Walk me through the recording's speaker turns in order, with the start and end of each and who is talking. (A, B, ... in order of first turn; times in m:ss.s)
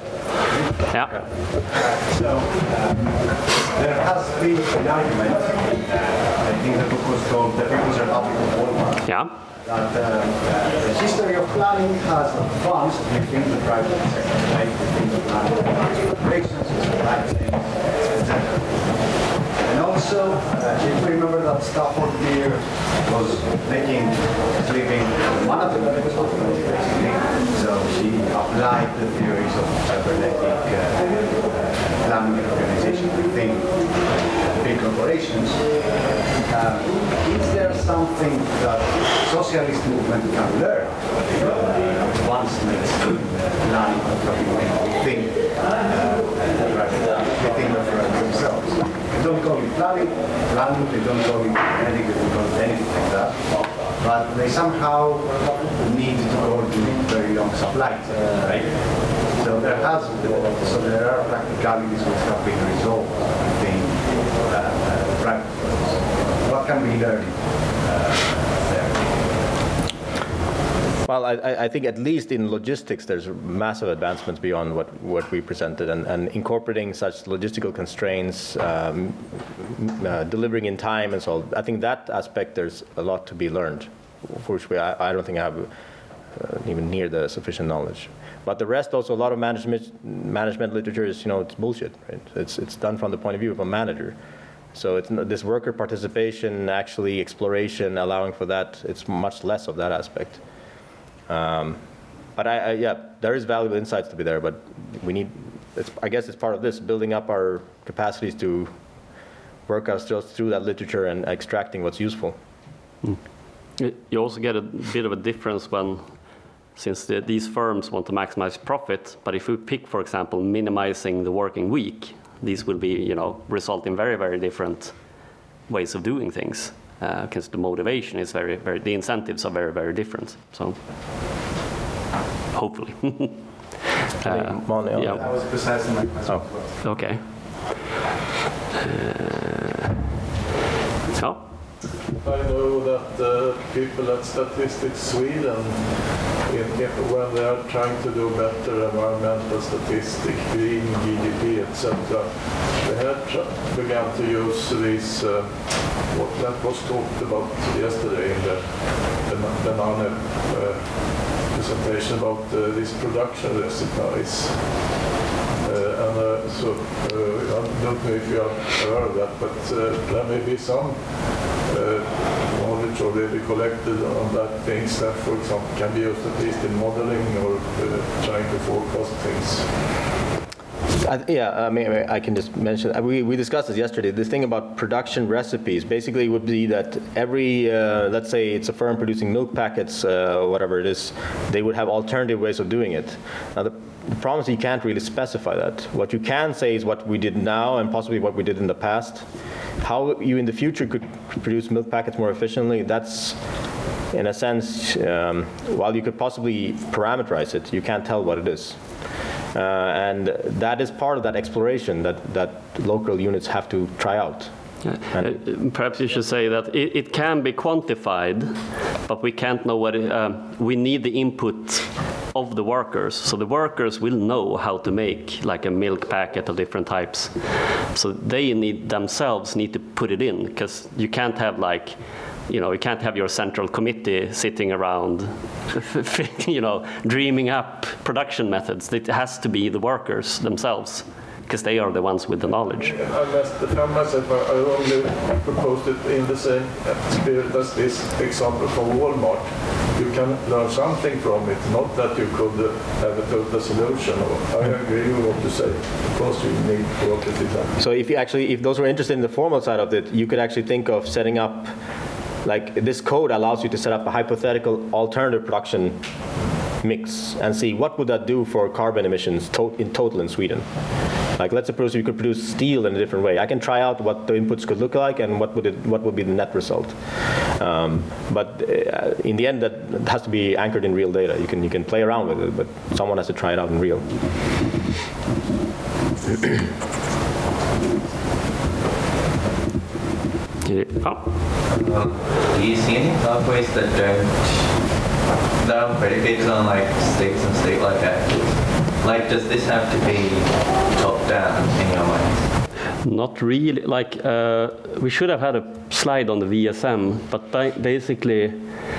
0:00.5-0:09.1 A
0:00.9-0:01.2 B
0:09.1-0:09.3 B
0:09.6-1:09.4 A
1:11.1-1:25.7 C
1:26.4-1:34.2 C
1:34.7-1:40.4 C
1:41.3-1:41.8 C
1:42.4-1:48.7 C
1:49.7-1:52.4 C
1:53.8-1:56.1 B
1:56.8-2:05.0 B
2:05.7-2:10.8 B
2:12.5-2:13.4 B
2:14.2-2:15.2 B
2:14.2-2:15.3 C
2:15.0-2:16.8 A
2:16.8-2:17.2 B
2:18.8-2:19.9 B
2:21.1-2:21.4 B
2:22.2-2:45.1 D
2:45.6-2:59.7 D
3:01.0-3:19.2 C
3:19.8-3:23.4 C
3:24.1-3:28.8 C
3:29.5-3:34.5 C
3:34.8-4:02.9 B
4:02.8-4:17.7 D
4:17.8-4:21.7 C
4:22.4-4:26.0 C
4:26.8-4:30.7 C
4:31.4-4:44.1 C
4:50.6-4:51.3 B
4:51.7-4:54.9 E
4:55.6-5:02.5 E
5:03.0-5:08.7 B